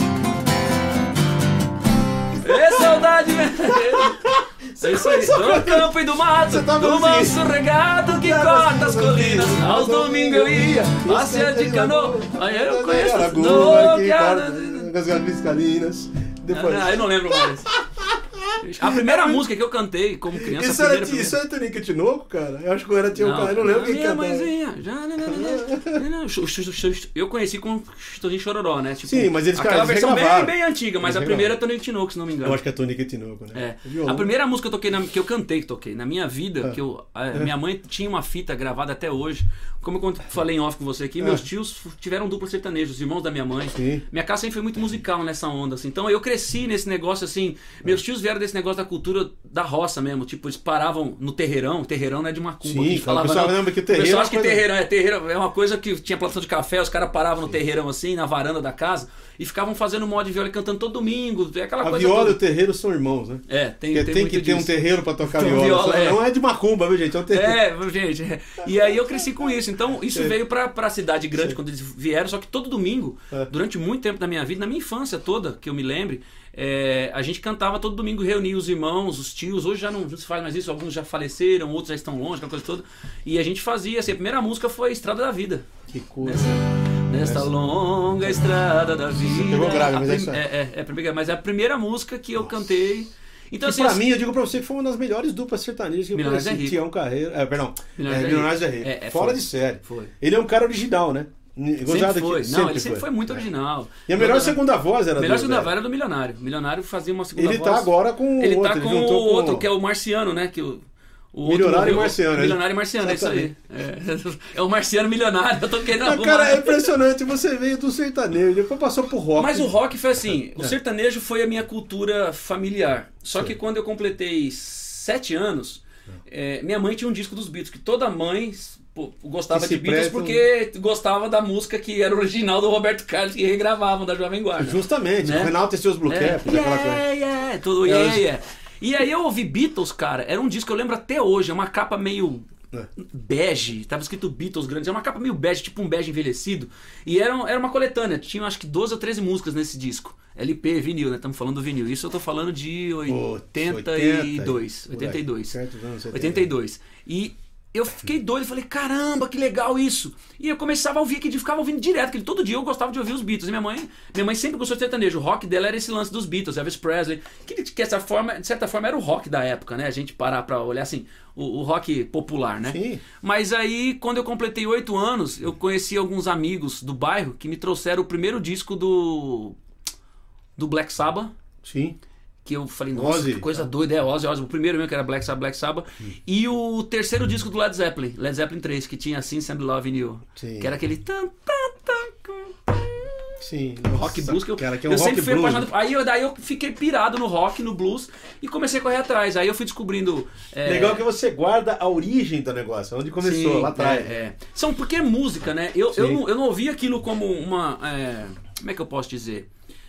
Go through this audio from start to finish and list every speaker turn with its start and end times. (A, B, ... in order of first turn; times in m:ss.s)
0:02.4-0:14.9 A
0:02.5-0:02.8 B
0:03.7-0:05.9 B
0:06.5-0:07.4 B
0:08.2-0:19.4 B
0:16.5-0:17.7 A
0:18.6-0:21.4 A
0:20.4-0:24.5 B
0:23.2-0:32.6 A
0:25.3-0:26.0 B
0:29.1-0:31.5 B
0:32.4-0:34.3 B
0:33.5-1:02.4 A
0:43.8-0:44.0 B
0:52.6-0:54.6 B
1:01.8-1:07.6 B
1:03.5-1:06.2 A
1:07.3-1:25.7 A
1:25.9-1:26.6 B
1:26.2-1:34.0 A
1:27.2-1:27.5 B
1:29.2-1:30.4 B
1:33.6-1:43.4 B
1:36.1-1:36.8 A
1:38.0-1:40.1 A
1:41.8-1:44.6 A
1:44.1-1:45.7 B
1:45.2-1:56.9 A
1:47.4-1:49.7 B
1:51.4-1:53.5 B
1:56.0-1:59.7 B
1:59.4-2:35.6 A
2:00.2-2:00.8 B
2:09.5-2:10.4 B
2:14.6-2:17.0 B
2:17.8-2:18.2 B
2:33.1-2:36.5 B
2:36.1-2:59.6 A
2:52.7-2:53.0 B
3:00.6-3:01.3 A
3:01.6-3:02.0 B
3:02.4-3:13.1 A
3:03.0-3:03.7 B
3:10.4-3:10.8 B
3:13.4-3:15.7 B
3:13.9-3:21.0 A
3:20.6-3:24.1 B
3:23.2-3:29.5 A
3:25.9-3:26.2 B